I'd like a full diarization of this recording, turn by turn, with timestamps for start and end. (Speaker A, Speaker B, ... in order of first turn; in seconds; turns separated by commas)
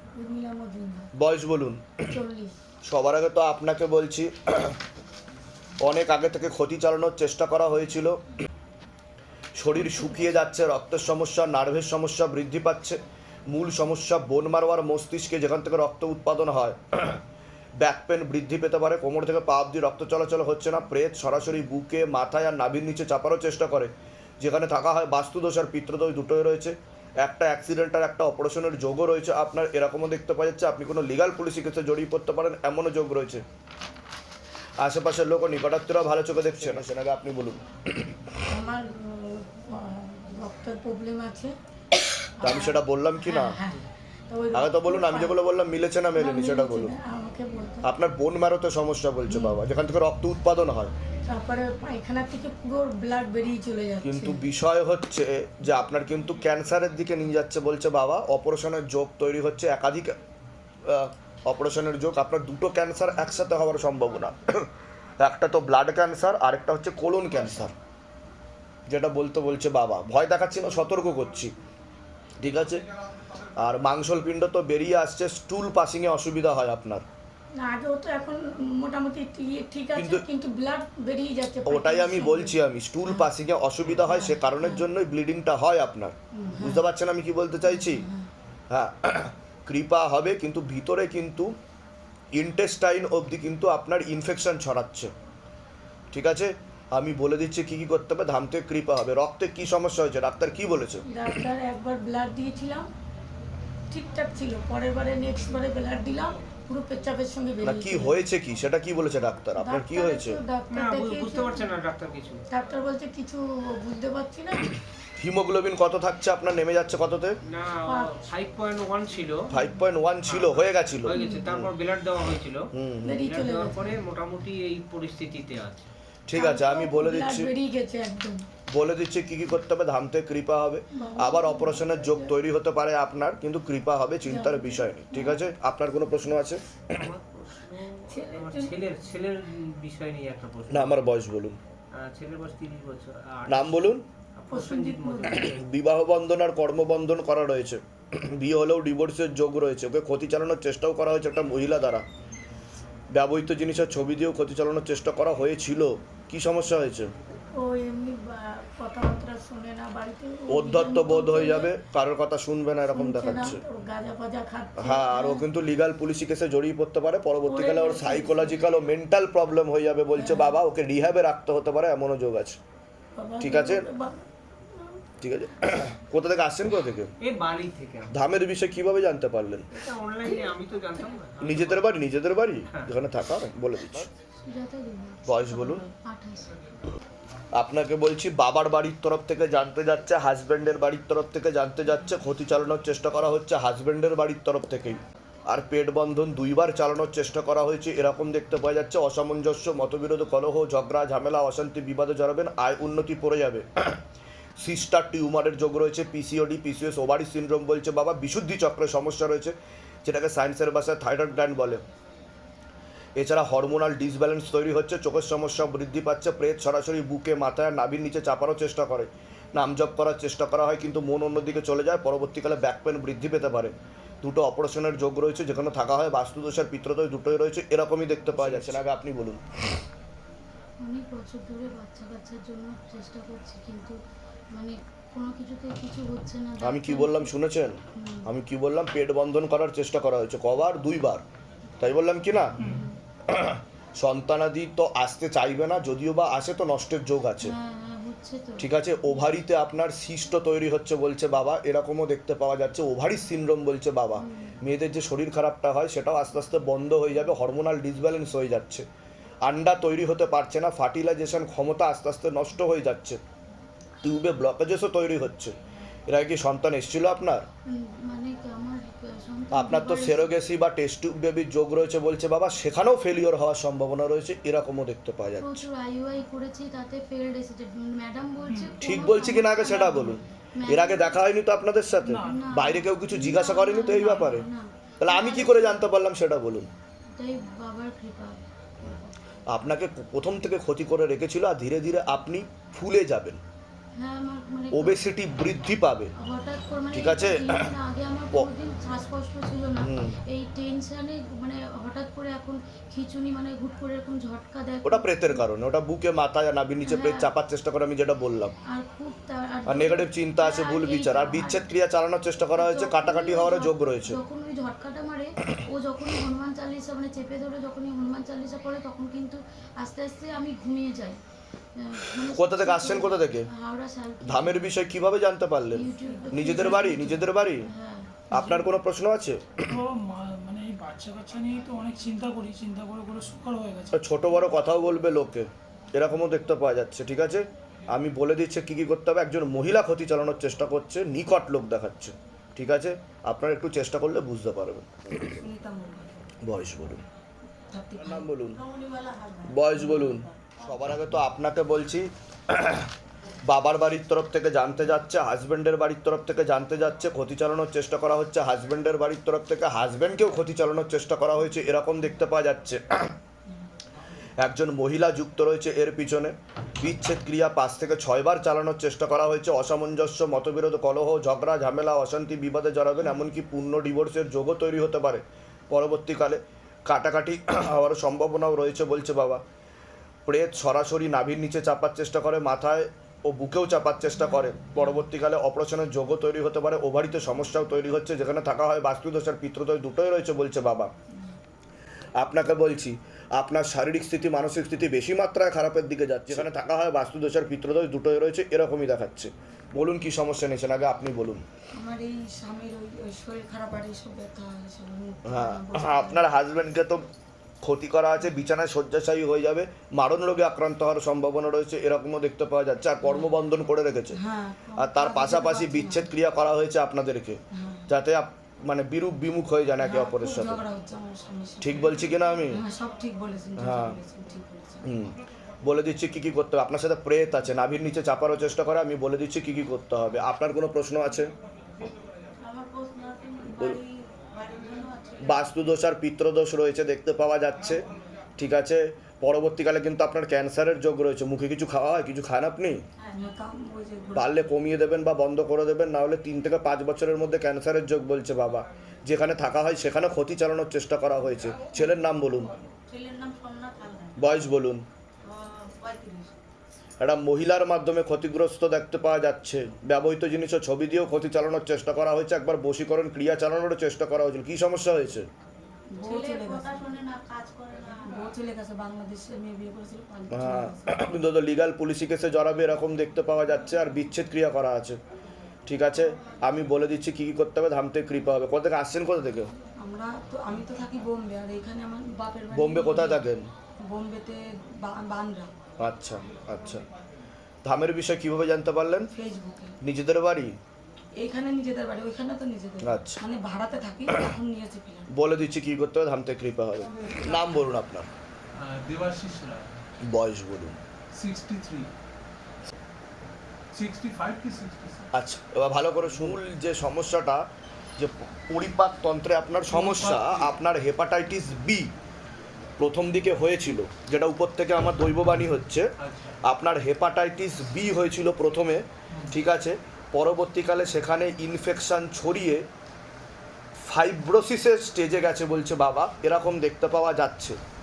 Speaker A: 0.2-1.1, Speaker B: 1.2-2.2, Speaker A: 2.1-2.5, Speaker B: 2.9-4.8, Speaker B: 5.8-8.2, Speaker B: 9.6-17.2, Speaker B: 17.8-33.4, Speaker B: 34.8-38.4, Speaker A: 38.5-41.5, Speaker A: 42.4-45.4, Speaker B: 42.4-43.6, Speaker B: 44.5-47.0, Speaker A: 46.1-47.9, Speaker B: 47.8-50.9, Speaker A: 49.3-49.6, Speaker A: 51.3-54.4, Speaker B: 54.0-60.2, Speaker B: 60.9-64.7, Speaker B: 65.2-67.7, Speaker B: 68.9-71.5, Speaker B: 72.4-72.8, Speaker B: 73.6-77.0, Speaker A: 77.6-83.3, Speaker B: 80.0-80.2, Speaker B: 81.7-88.0, Speaker A: 84.0-84.9, Speaker A: 86.3-86.9, Speaker A: 87.7-88.3, Speaker B: 88.7-91.5, Speaker B: 92.3-95.1, Speaker B: 96.1-101.1, Speaker A: 101.1-102.9, Speaker A: 103.9-108.2, Speaker B: 107.6-110.4, Speaker A: 109.6-111.7, Speaker C: 110.7-112.4, Speaker A: 112.5-114.8, Speaker B: 115.2-117.4, Speaker C: 117.5-119.5, Speaker A: 117.9-118.1, Speaker B: 119.5-121.7, Speaker C: 120.2-122.7, Speaker A: 121.1-121.5, Speaker B: 122.7-123.2, Speaker A: 123.0-124.0, Speaker C: 123.2-125.9, Speaker B: 126.3-127.5, Speaker A: 126.3-128.4, Speaker B: 128.7-137.1, Speaker A: 130.9-132.3, Speaker A: 134.2-135.5, Speaker C: 136.9-141.1, Speaker A: 138.1-138.8, Speaker B: 140.7-141.6, Speaker C: 141.9-145.7, Speaker B: 143.5-144.1, Speaker A: 144.5-145.5, Speaker B: 145.2-152.1, Speaker B: 153.1-157.1, Speaker A: 157.6-161.8, Speaker B: 160.5-163.6, Speaker A: 162.9-165.5, Speaker B: 164.8-172.6, Speaker A: 167.4-168.7, Speaker A: 170.2-170.6, Speaker A: 173.2-175.0, Speaker B: 173.4-173.9, Speaker B: 175.2-177.1, Speaker C: 177.2-178.3, Speaker B: 178.1-179.7, Speaker C: 179.7-182.0, Speaker B: 181.4-184.1, Speaker D: 184.2-186.6, Speaker B: 185.3-185.8, Speaker B: 187.5-204.0, Speaker B: 204.6-211.8, Speaker B: 213.2-229.8, Speaker D: 230.8-234.0, Speaker D: 234.5-237.4, Speaker B: 236.6-241.2, Speaker D: 237.9-238.3, Speaker B: 241.8-242.6, Speaker D: 242.7-243.0, Speaker B: 243.3-247.6, Speaker D: 247.4-249.3, Speaker B: 248.6-258.9, Speaker D: 254.2-254.6, Speaker B: 259.4-263.2, Speaker B: 264.0-265.6, Speaker B: 266.1-267.5, Speaker D: 267.7-270.4, Speaker B: 269.5-275.6, Speaker D: 275.4-281.3, Speaker B: 278.8-284.4, Speaker E: 282.0-282.4, Speaker D: 282.2-285.9, Speaker B: 285.0-286.7, Speaker D: 287.2-288.4, Speaker B: 289.5-293.4, Speaker D: 293.9-295.2, Speaker B: 294.7-296.1, Speaker D: 296.2-305.5, Speaker B: 296.9-297.6, Speaker B: 299.8-300.2, Speaker B: 304.8-308.6, Speaker D: 306.9-307.3, Speaker D: 308.7-311.7, Speaker B: 309.7-314.2, Speaker D: 312.6-321.2, Speaker D: 321.8-324.8, Speaker B: 322.3-323.5, Speaker B: 324.3-327.7, Speaker D: 325.7-328.2, Speaker B: 328.3-329.6, Speaker E: 328.4-328.8, Speaker E: 329.7-334.0, Speaker B: 333.9-345.4, Speaker F: 345.2-346.2, Speaker B: 346.5-347.0, Speaker F: 347.7-348.3, Speaker B: 348.0-348.6, Speaker A: 348.7-349.1, Speaker D: 349.0-349.4, Speaker B: 349.5-352.9, Speaker B: 353.4-363.1, Speaker B: 364.4-379.4, Speaker B: 380.3-390.9, Speaker B: 392.2-401.4, Speaker F: 401.7-406.3, Speaker B: 405.2-407.1, Speaker B: 407.6-414.2, Speaker F: 414.1-416.1, Speaker B: 414.8-420.6, Speaker F: 417.5-417.9, Speaker F: 419.8-424.9, Speaker B: 421.6-422.6, Speaker B: 423.6-424.0, Speaker B: 424.9-431.3, Speaker D: 432.4-435.5, Speaker B: 433.5-433.8, Speaker B: 435.2-437.9, Speaker B: 438.4-442.8, Speaker F: 443.1-444.3, Speaker B: 444.1-452.5, Speaker D: 452.9-454.3, Speaker B: 454.2-454.9, Speaker D: 455.3-456.2, Speaker B: 457.0-465.3, Speaker F: 466.0-467.0, Speaker D: 466.1-468.2, Speaker F: 468.1-471.1, Speaker B: 470.3-475.0, Speaker B: 475.7-479.5, Speaker F: 479.8-483.3, Speaker B: 482.5-483.5, Speaker F: 483.8-485.5, Speaker B: 485.8-486.8, Speaker B: 487.6-489.1, Speaker F: 489.1-489.8, Speaker B: 489.8-490.6, Speaker F: 491.2-495.1, Speaker B: 492.8-493.2, Speaker B: 495.1-498.1, Speaker G: 496.8-497.6, Speaker G: 498.6-499.7, Speaker B: 500.0-500.8, Speaker G: 501.1-501.9, Speaker G: 503.7-505.1, Speaker B: 505.1-507.5, Speaker G: 506.0-506.4, Speaker B: 508.0-511.9, Speaker G: 509.7-510.5, Speaker B: 512.8-515.9, Speaker G: 516.0-516.4, Speaker B: 516.4-522.7, Speaker B: 523.8-527.6